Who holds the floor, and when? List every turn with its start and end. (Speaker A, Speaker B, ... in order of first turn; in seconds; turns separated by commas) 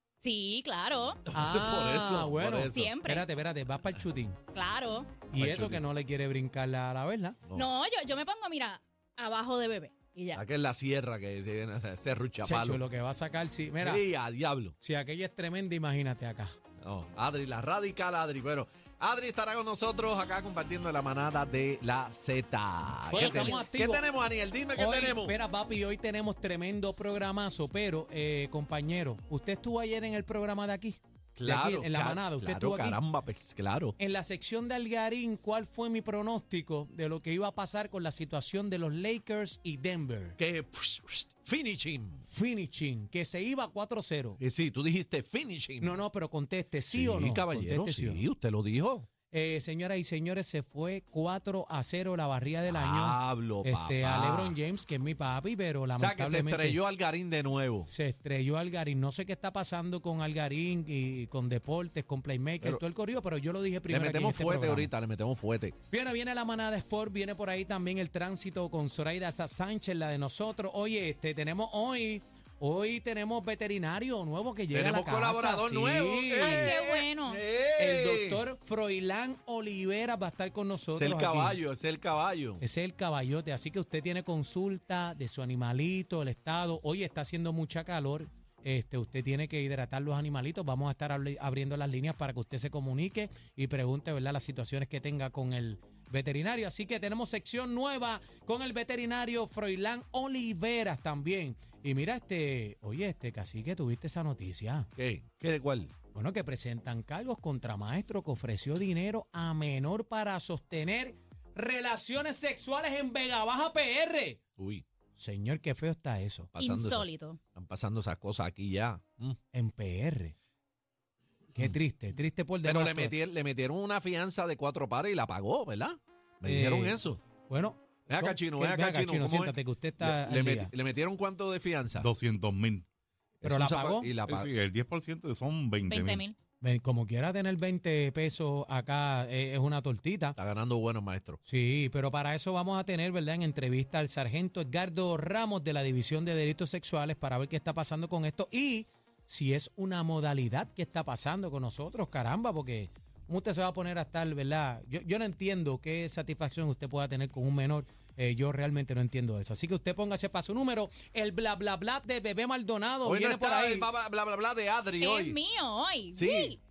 Speaker A: 0.2-1.2, Speaker B: 1.3-2.9, Speaker C: 1.3-4.4, Speaker A: 2.7-3.3, Speaker A: 4.5-5.1, Speaker C: 5.3-7.4, Speaker B: 5.3-5.8, Speaker A: 7.5-10.4, Speaker B: 10.3-12.8, Speaker C: 12.4-14.0, Speaker B: 13.8-14.7, Speaker C: 14.8-16.5, Speaker B: 16.8-25.3, Speaker C: 23.1-24.0, Speaker A: 23.1-23.6, Speaker C: 24.7-33.0, Speaker B: 31.4-33.9, Speaker C: 34.0-40.4, Speaker B: 40.4-42.2, Speaker C: 42.3-44.4, Speaker B: 44.4-46.0, Speaker C: 45.8-48.2, Speaker B: 46.9-49.1, Speaker C: 49.3-56.8, Speaker B: 52.7-54.6, Speaker B: 56.0-57.9, Speaker C: 57.9-64.9, Speaker B: 63.9-65.8, Speaker C: 65.9-76.7, Speaker B: 74.7-78.4, Speaker A: 76.4-77.4, Speaker C: 77.8-81.6, Speaker B: 80.9-82.6, Speaker C: 82.6-104.9, Speaker B: 105.0-105.9, Speaker C: 106.1-114.4, Speaker B: 114.6-114.8, Speaker C: 115.2-116.5, Speaker B: 116.5-119.4, Speaker A: 116.6-117.4, Speaker C: 119.5-120.3, Speaker C: 121.5-123.2, Speaker B: 122.6-127.2, Speaker C: 126.4-130.7, Speaker B: 128.1-132.1, Speaker D: 131.9-132.8, Speaker C: 133.4-134.1, Speaker B: 133.4-134.5, Speaker D: 134.2-136.3, Speaker A: 135.9-136.3, Speaker C: 136.6-140.4, Speaker B: 140.3-141.4, Speaker C: 141.5-163.9, Speaker B: 163.0-165.4, Speaker A: 165.0-166.6, Speaker B: 166.1-166.5